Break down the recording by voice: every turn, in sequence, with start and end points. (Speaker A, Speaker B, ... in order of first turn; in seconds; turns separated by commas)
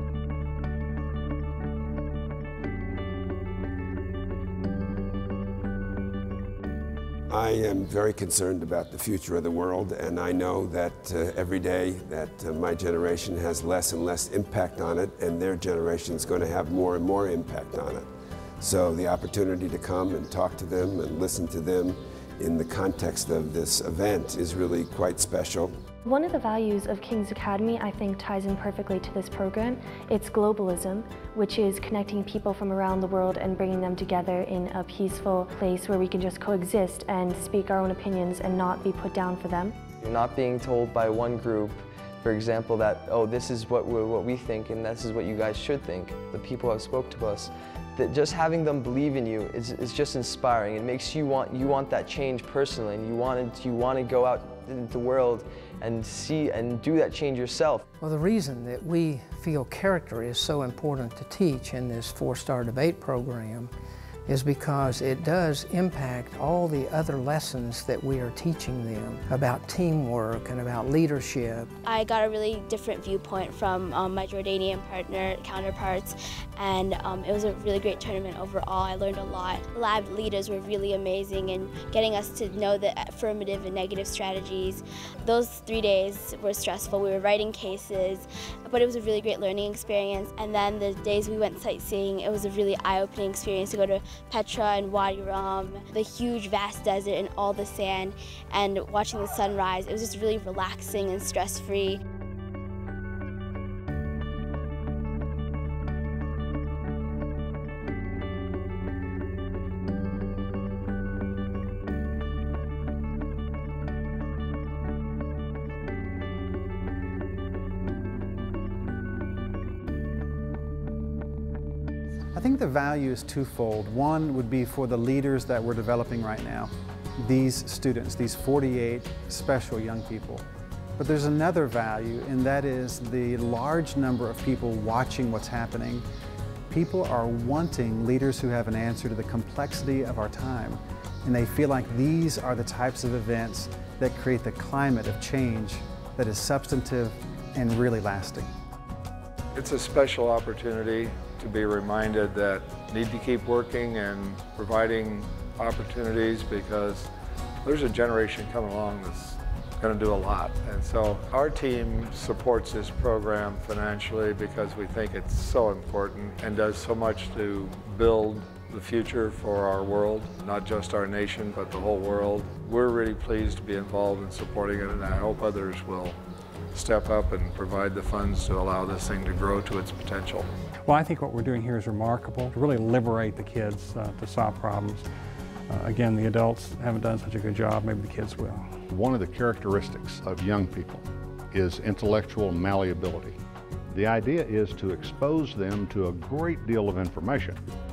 Speaker A: 7.3-18.1, Speaker A: 18.6-25.7, Speaker B: 26.0-39.7, Speaker C: 40.0-57.8, Speaker D: 58.0-63.7, Speaker D: 64.3-71.7, Speaker E: 71.8-102.0, Speaker F: 122.3-126.7, Speaker F: 127.2-130.4, Speaker F: 131.0-136.0, Speaker F: 136.7-148.5, Speaker G: 149.6-157.1, Speaker G: 157.6-176.1, Speaker G: 176.7-180.4, Speaker H: 180.8-185.1, Speaker H: 185.7-188.7, Speaker I: 188.9-193.4, Speaker I: 193.9-197.6